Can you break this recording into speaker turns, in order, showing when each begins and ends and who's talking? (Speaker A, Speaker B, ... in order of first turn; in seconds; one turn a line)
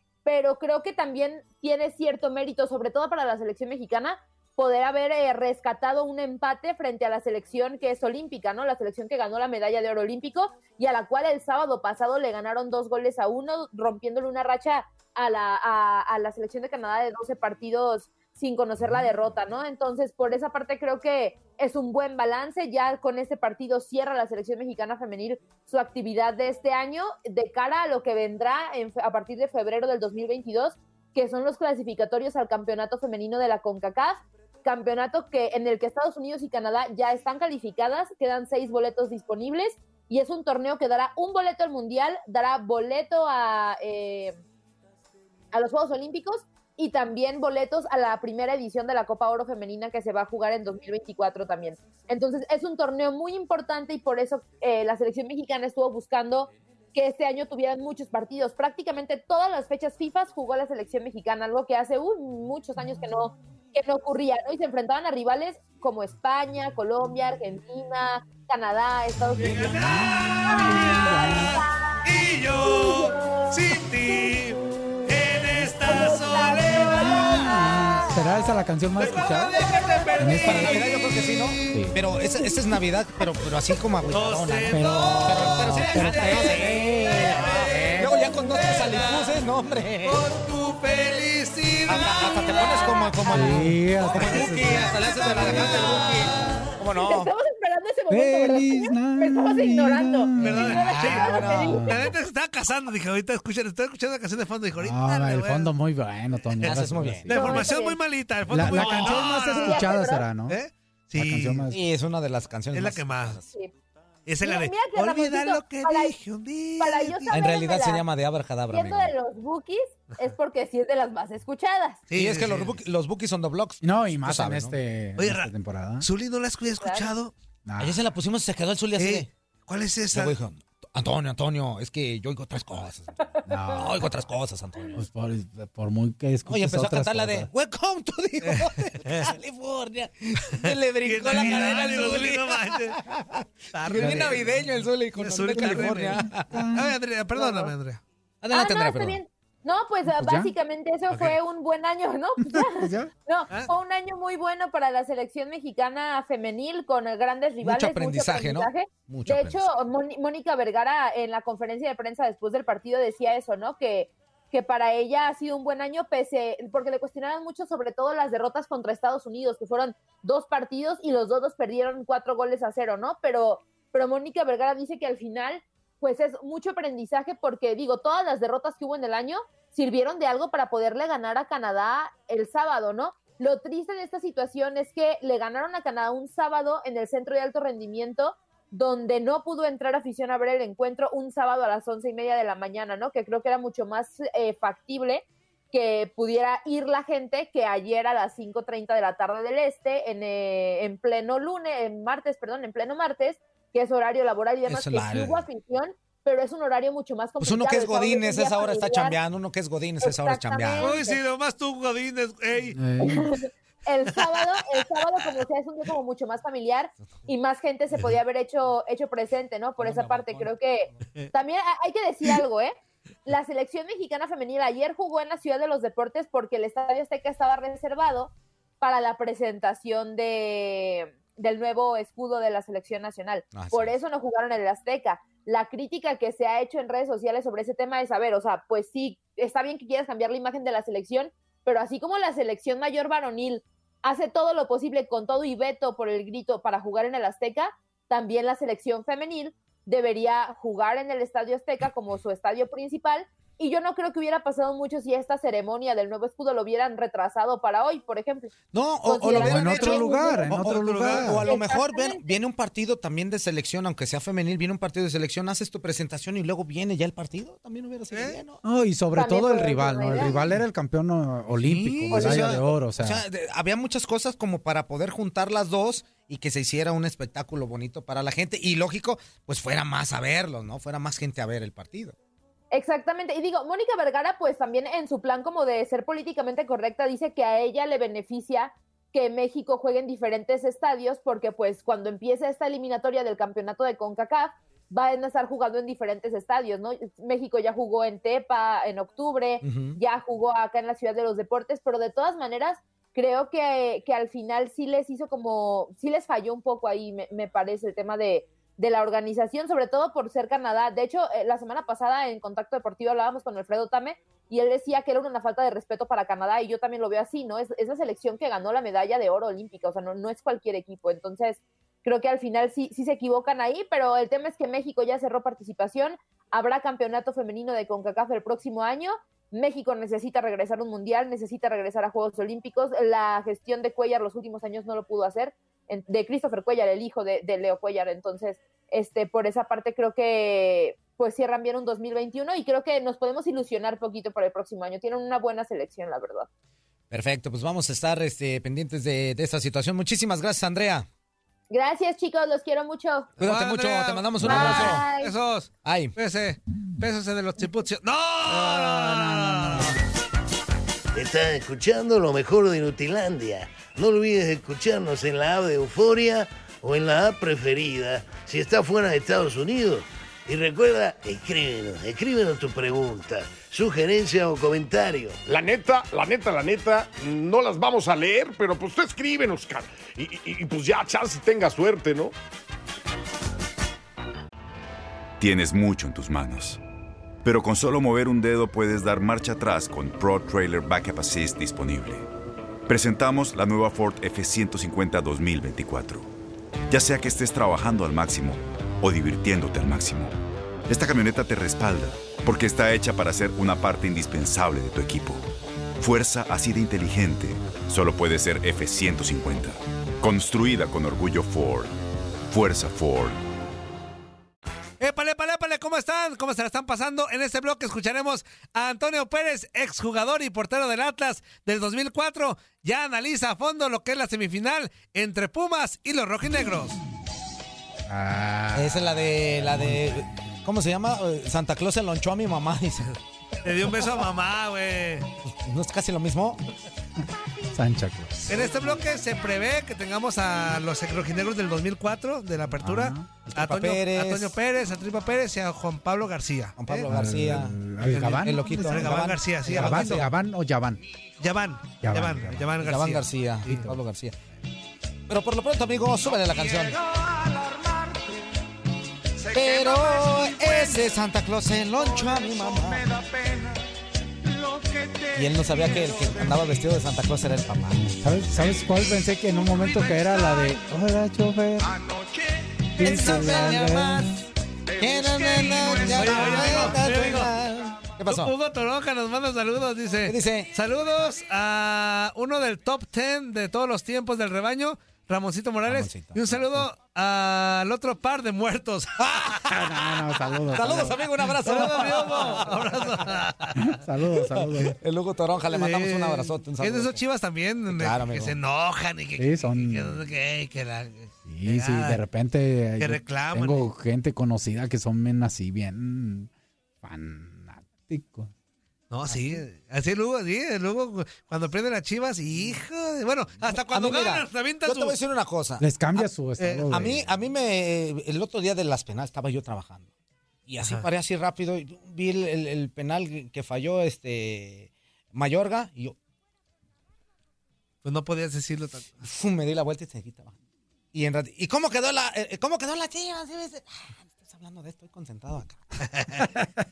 Speaker A: 0.2-44.4
Speaker A: 45.5-69.9
Speaker B: 69.3-77.8
Speaker C: 69.6-71.6
Speaker A: 70.4-74.6
Speaker C: 75.5-79.6
Speaker A: 75.8-78.2
Speaker B: 79.0-81.9
Speaker A: 79.6-80.3
Speaker C: 80.2-80.8
Speaker D: 80.4-90.2
Speaker C: 81.7-82.0
Speaker B: 84.1-89.4
Speaker C: 84.7-88.1
Speaker B: 90.0-93.1
Speaker D: 91.8-97.3
Speaker A: 92.6-93.1
Speaker C: 93.3-96.0
Speaker B: 94.0-96.4
Speaker A: 96.9-101.9
Speaker C: 98.1-102.1
Speaker B: 100.4-105.7
Speaker D: 100.7-102.0
Speaker C: 104.8-107.7
Speaker B: 106.6-111.7
Speaker D: 106.6-107.5
Speaker A: 107.3-108.0
Speaker C: 108.5-110.6
Speaker A: 109.5-110.3
Speaker C: 111.1-111.8
Speaker D: 111.7-113.4
Speaker B: 112.7-113.4
Speaker B: 114.2-117.4
Speaker A: 114.4-116.2
Speaker A: 116.8-118.0
Speaker D: 117.3-119.1
Speaker A: 118.7-122.0
Speaker B: 122.1-122.8
Speaker D: 122.1-124.8
Speaker C: 123.8-126.1
Speaker B: 125.2-127.3
Speaker A: 126.8-127.1
Speaker C: 127.7-128.1
Speaker D: 127.8-129.3
Speaker B: 129.0-130.4
Speaker D: 130.1-133.2
Speaker C: 133.4-134.1
Speaker D: 133.7-135.0
Speaker C: 134.9-137.5
Speaker D: 136.4-146.6
Speaker B: 138.4-139.3
Speaker B: 140.6-143.0
Speaker C: 141.2-142.2
Speaker B: 143.7-144.5
Speaker C: 144.0-144.6
Speaker B: 145.2-148.0
Speaker C: 145.5-146.9
Speaker A: 147.3-147.7
Speaker D: 148.4-149.2
Speaker A: 148.5-209.2
Speaker C: 150.1-150.5
Speaker B: 151.1-151.4
Speaker C: 152.4-153.1
Speaker D: 157.6-159.7
Speaker D: 204.7-205.4
Speaker D: 207.4-210.9
Speaker A: 210.0-211.2
Speaker B: 210.8-212.8
Speaker C: 212.7-213.3
Speaker A: 213.0-222.7
Speaker D: 219.8-220.4
Speaker A: 223.2-260.5
Speaker D: 233.5-233.9
Speaker D: 258.7-268.6
Speaker C: 259.3-261.5
Speaker B: 260.5-261.4
Speaker A: 261.4-262.4
Speaker B: 268.1-268.4
Speaker C: 268.6-273.2
Speaker A: 269.1-270.4
Speaker D: 271.6-282.1
Speaker A: 272.1-272.6
Speaker A: 282.7-346.5
Speaker D: 299.6-300.0
Speaker D: 347.1-351.1
Speaker A: 351.7-353.3
Speaker D: 353.4-355.0
Speaker B: 353.4-360.0
Speaker A: 354.4-355.3
Speaker D: 355.8-356.1
Speaker C: 358.5-359.9
Speaker E: 361.1-375.4
Speaker F: 375.4-382.3
Speaker G: 385.4-386.8
Speaker G: 387.4-392.2
Speaker G: 392.9-396.3
Speaker G: 396.9-400.3
Speaker G: 400.9-405.4
Speaker G: 406.0-411.9
Speaker G: 412.5-413.4
Speaker B: 415.0-427.0
Speaker C: 428.1-430.6
Speaker D: 428.7-433.1
Speaker B: 433.6-435.3
Speaker D: 435.4-436.6
Speaker C: 437.7-438.8
Speaker B: 438.5-446.8
Speaker C: 442.8-443.4
Speaker D: 443.5-444.5
Speaker D: 446.8-450.2
Speaker C: 447.0-451.0
Speaker B: 448.0-450.2
Speaker B: 451.4-453.7
Speaker C: 452.0-452.8
Speaker D: 452.8-454.4
Speaker C: 453.7-453.9
Speaker D: 455.3-457.0
Speaker D: 459.5-463.1
Speaker D: 465.3-468.2
Speaker C: 468.0-472.0
Speaker C: 472.9-474.4
Speaker D: 473.0-474.4
Speaker D: 474.9-478.5
Speaker B: 475.8-477.6
Speaker B: 478.2-489.2
Speaker D: 480.2-480.7
Speaker D: 485.9-486.9
Speaker D: 489.2-493.0
Speaker C: 489.7-492.5
Speaker B: 491.6-493.9
Speaker C: 493.8-494.9
Speaker D: 494.5-497.2
Speaker B: 495.7-502.2
Speaker D: 497.9-498.6
Speaker C: 499.4-500.3
Speaker C: 501.4-506.5
Speaker B: 503.0-503.9
Speaker C: 507.0-508.5
Speaker B: 509.1-515.2
Speaker C: 509.3-509.6
Speaker D: 513.9-515.9
Speaker C: 515.8-517.4
Speaker B: 516.2-517.1
Speaker D: 516.9-520.1
Speaker D: 520.7-526.1
Speaker B: 520.8-521.0
Speaker B: 528.0-529.2
Speaker D: 529.2-530.5
Speaker D: 531.1-536.0
Speaker B: 536.0-536.5